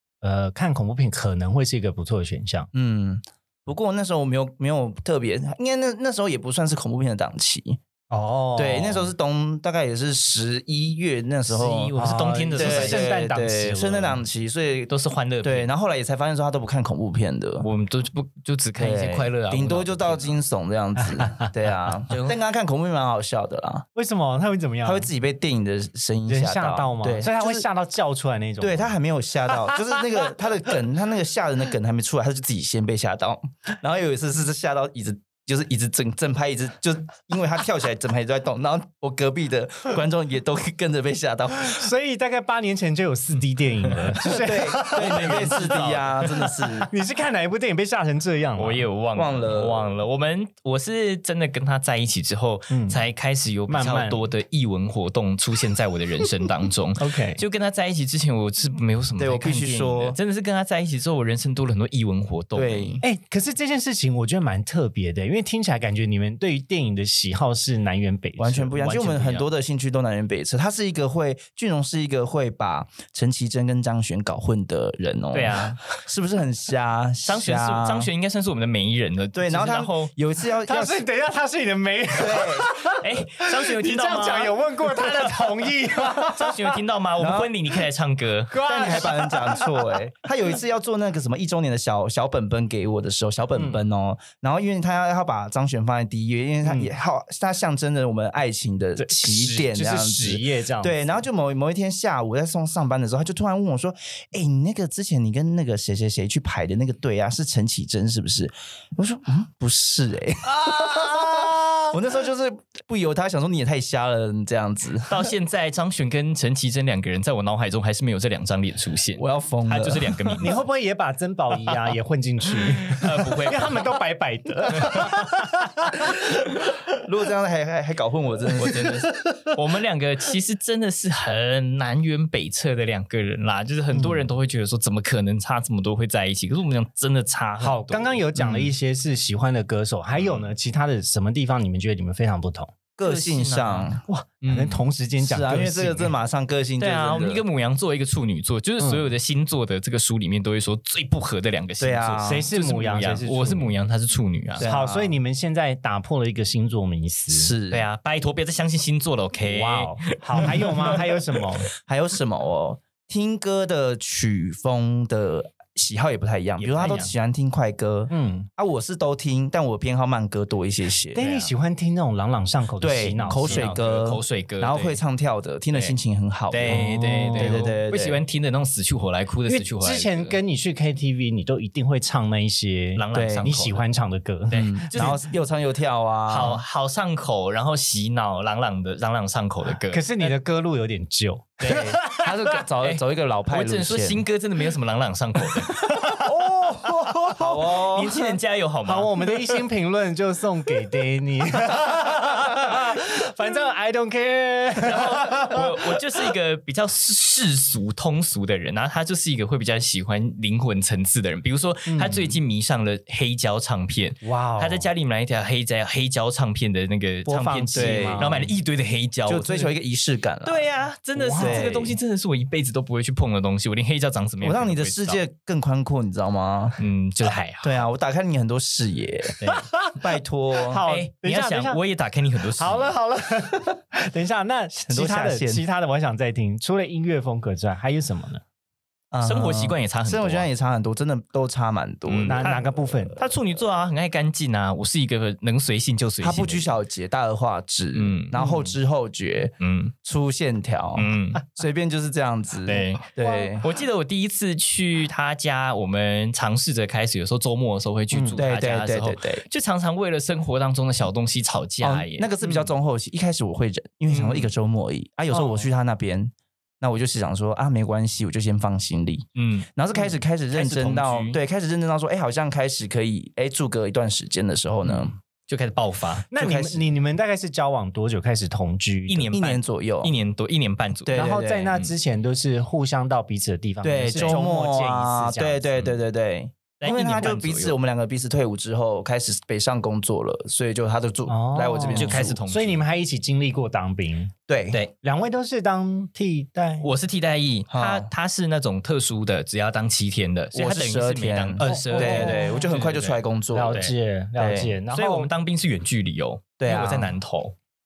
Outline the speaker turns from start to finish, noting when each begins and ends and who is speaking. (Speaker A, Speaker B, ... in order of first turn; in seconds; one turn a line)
Speaker A: 0.2-2.7
Speaker B: 2.7-7.8
Speaker A: 8.1-9.1
Speaker B: 8.6-11.9
Speaker C: 11.5-13.1
Speaker A: 12.0-14.2
Speaker B: 12.6-17.7
Speaker C: 14.9-15.7
Speaker C: 17.6-20.4
Speaker B: 18.8-23.9
Speaker C: 22.1-22.4
Speaker A: 23.9-25.1
Speaker B: 24.8-27.7
Speaker A: 26.3-28.9
Speaker B: 28.6-41.9
Speaker A: 41.5-45.6
Speaker C: 43.9-46.1
Speaker B: 44.3-46.9
Speaker A: 46.4-48.9
Speaker C: 48.6-63.0
Speaker B: 49.1-49.9
Speaker A: 52.7-53.0
Speaker A: 53.7-54.3
Speaker A: 57.0-57.4
Speaker B: 59.2-60.2
Speaker B: 62.5-63.0
Speaker A: 63.0-68.7
Speaker B: 68.4-78.1
Speaker C: 68.7-69.5
Speaker C: 75.3-75.8
Speaker C: 77.2-80.1
Speaker B: 79.3-81.0
Speaker A: 80.7-86.8
Speaker B: 82.2-82.7
Speaker C: 82.9-88.6
Speaker B: 87.2-87.5
Speaker A: 88.5-89.9
Speaker B: 88.6-115.3
Speaker A: 96.6-96.9
Speaker A: 99.0-101.1
Speaker A: 110.6-111.9
Speaker C: 115.1-120.6
Speaker B: 119.2-120.4
Speaker A: 120.4-126.2
Speaker C: 122.5-124.0
Speaker C: 124.8-125.3
Speaker B: 127.0-128.9
Speaker C: 128.6-138.7
Speaker A: 129.0-129.5
Speaker A: 133.9-134.3
Speaker A: 137.6-142.7
Speaker C: 140.2-140.5
Speaker B: 143.0-144.0
Speaker C: 143.0-144.8
Speaker A: 144.1-146.1
Speaker B: 145.2-147.4
Speaker C: 146.8-154.7
Speaker A: 148.8-149.1
Speaker B: 151.8-152.5
Speaker A: 152.2-153.7
Speaker B: 154.6-155.2
Speaker A: 154.6-157.5
Speaker B: 157.3-157.8
Speaker C: 157.7-161.4
Speaker A: 159.4-161.7
Speaker B: 161.8-171.2
Speaker C: 166.6-167.1
Speaker A: 168.1-168.5
Speaker A: 171.1-173.7
Speaker C: 171.2-171.5
Speaker B: 172.8-178.2
Speaker C: 173.3-175.0
Speaker C: 176.5-180.4
Speaker A: 176.7-177.8
Speaker A: 179.5-185.2
Speaker C: 182.9-183.8
Speaker B: 183.1-183.5
Speaker C: 184.5-185.2
Speaker B: 184.6-186.6
Speaker C: 186.3-190.4
Speaker A: 189.8-192.3
Speaker C: 191.6-192.0
Speaker B: 191.7-194.3
Speaker C: 192.8-196.3
Speaker A: 195.7-197.7
Speaker B: 197.3-198.4
Speaker C: 197.6-199.7
Speaker A: 198.8-206.0
Speaker C: 204.8-219.7
Speaker A: 211.9-212.4
Speaker A: 214.2-214.9
Speaker A: 217.3-218.5
Speaker B: 217.7-218.5
Speaker B: 219.3-220.7
Speaker C: 220.4-225.2
Speaker A: 221.2-221.7
Speaker B: 221.4-222.0
Speaker B: 224.4-226.8
Speaker C: 226.8-227.8
Speaker B: 227.6-229.4
Speaker C: 229.4-229.7
Speaker A: 229.5-230.0
Speaker B: 229.9-230.8
Speaker A: 230.7-231.8
Speaker C: 230.9-232.9
Speaker A: 232.6-238.4
Speaker B: 234.8-235.6
Speaker B: 239.1-242.7
Speaker C: 239.2-240.5
Speaker C: 242.1-246.8
Speaker A: 242.3-243.2
Speaker B: 246.2-253.6
Speaker C: 247.9-248.4
Speaker A: 248.3-248.7
Speaker C: 249.6-249.9
Speaker C: 251.0-251.4
Speaker C: 252.7-253.1
Speaker A: 253.2-253.6
Speaker C: 253.6-262.3
Speaker A: 258.1-258.4
Speaker B: 258.4-259.4
Speaker B: 261.8-275.1
Speaker C: 264.1-264.5
Speaker A: 265.3-265.6
Speaker C: 269.4-269.7
Speaker C: 270.5-271.4
Speaker C: 275.5-276.3
Speaker A: 276.3-279.3
Speaker B: 276.4-276.8
Speaker C: 279.1-281.9
Speaker B: 279.3-280.1
Speaker B: 281.1-281.8
Speaker A: 281.1-285.7
Speaker B: 283.8-292.4
Speaker C: 286.8-287.8
Speaker A: 291.3-294.3
Speaker C: 291.9-292.8
Speaker B: 294.5-294.8
Speaker A: 295.0-296.9
Speaker C: 296.8-303.2
Speaker B: 297.7-298.1
Speaker B: 300.5-303.8
Speaker A: 301.6-302.7
Speaker A: 303.5-305.3
Speaker B: 304.4-304.7
Speaker C: 304.9-307.5
Speaker B: 306.6-307.2